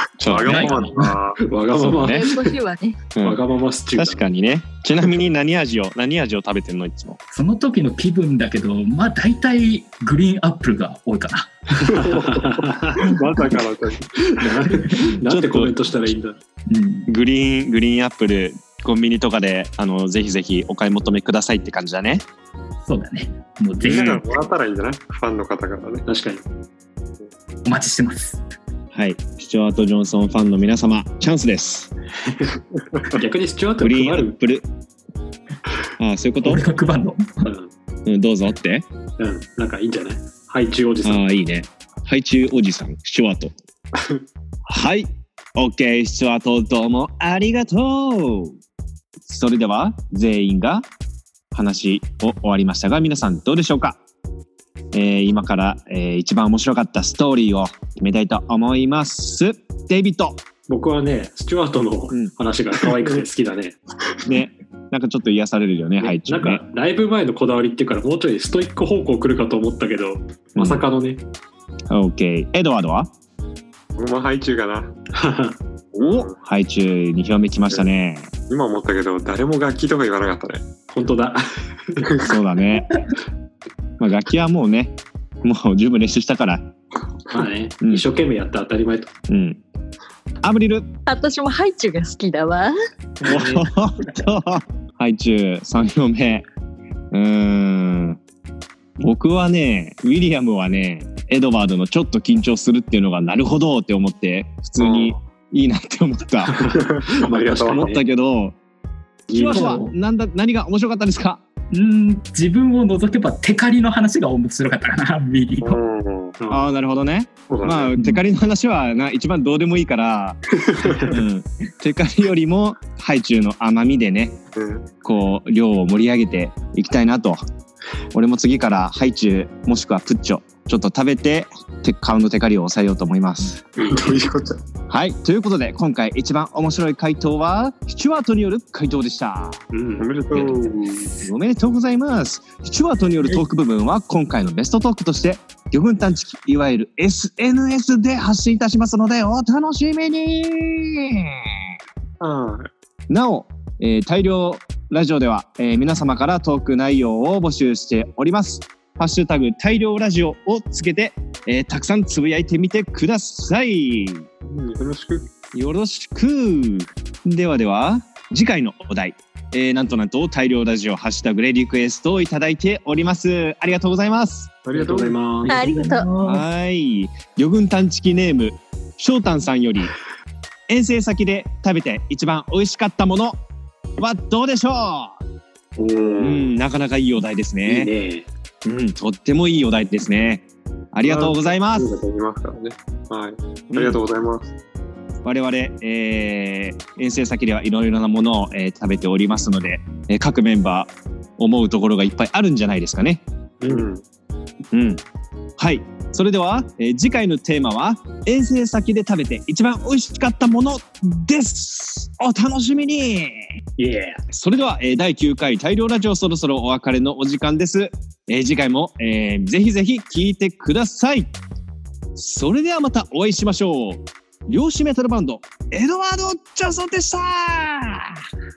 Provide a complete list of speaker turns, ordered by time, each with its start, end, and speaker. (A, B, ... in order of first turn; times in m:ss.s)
0:00.2-0:01.4 A
0:00.2-0:00.8 B
0:00.3-0:01.2 C
0:00.7-0:02.6 D
0:01.7-0:02.2 B
0:02.0-0:03.0 E
0:03.2-0:03.4 B
0:03.2-0:04.2 D
0:03.9-0:07.2 B
0:07.3-0:11.5 C
0:11.8-0:14.6 A
0:11.9-0:13.1 D
0:13.3-0:13.6 C
0:14.2-0:16.4 D
0:15.2-0:15.9 B
0:16.7-0:17.1 C
0:17.1-0:22.2 B
0:22.8-0:24.4 C
0:23.8-0:26.0 A
0:26.0-0:26.4 D
0:27.6-0:28.4 C
0:28.9-0:31.9 B
0:32.2-0:32.5 D
0:32.8-0:33.2 A
0:33.1-0:34.4 D
0:33.8-0:34.7 B
0:36.0-0:36.6 B
0:36.4-0:37.4 C
0:37.4-0:37.7 D
0:38.0-0:38.9 B
0:39.2-0:41.2 D
0:41.0-0:43.6 B
0:44.7-0:48.6 B
0:49.2-0:50.9 B
0:51.5-0:54.0 B
0:54.9-1:00.4 B
1:00.7-1:03.8 D
1:04.2-1:06.6 B
1:06.0-1:11.2 D
1:10.6-1:10.8 B
1:11.9-1:13.1 B
1:13.9-1:14.9 A
1:15.1-1:15.6 D
1:15.9-1:16.4 A
1:16.0-1:18.3 B
1:18.5-1:20.8 A
1:20.9-1:22.2 D
1:22.2-1:22.9 B
1:24.0-1:26.7 B
1:27.3-1:29.1 D
1:29.3-1:29.6 B
1:30.4-1:30.9 B
1:31.0-1:32.7 E
1:33.2-1:36.4 B
1:33.2-1:33.7 D
1:37.1-1:38.2 B
1:39.0-1:46.5 B
1:44.8-1:45.2 A
1:46.4-1:48.0 D
1:46.8-1:47.9 A
1:47.6-1:48.6 B
1:49.3-1:51.4 B
1:49.3-1:49.9 C
1:51.7-1:55.8 C
1:55.6-1:56.4 A
1:56.4-1:56.6 D
1:56.5-2:00.4 B
1:57.5-1:58.0 A
2:00.5-2:01.2 A
2:01.1-2:04.4 B
2:04.6-2:04.9 A
2:05.0-2:07.4 B
2:08.1-2:13.6 B
2:13.8-2:14.6 A
2:13.8-2:14.1 D
2:14.9-2:19.6 B
2:19.7-2:20.6 D
2:20.0-2:21.1 A
2:21.1-2:31.6 B
2:32.2-2:32.7 A
2:33.1-2:44.2 B
2:44.5-2:45.3 A
2:45.5-2:54.5 B
2:54.6-2:55.2 A
2:54.7-2:55.6 D
2:55.4-2:56.4 C
2:55.5-2:56.1 E
2:56.2-2:59.9 B
3:00.7-3:03.4 B
3:04.0-3:05.2 B
3:05.8-3:06.5 A
3:06.2-3:07.9 B
3:07.6-3:08.3 D
3:08.6-3:11.9 B
3:11.0-3:14.5 A
3:13.7-3:14.0 B
3:15.2-3:23.2 B
3:23.6-3:23.9 D
3:23.6-3:24.0 A
3:24.7-3:25.0 B
3:25.6-3:33.6 B
3:33.8-3:34.2 D
3:34.3-3:41.3 B
3:42.1-3:48.2 B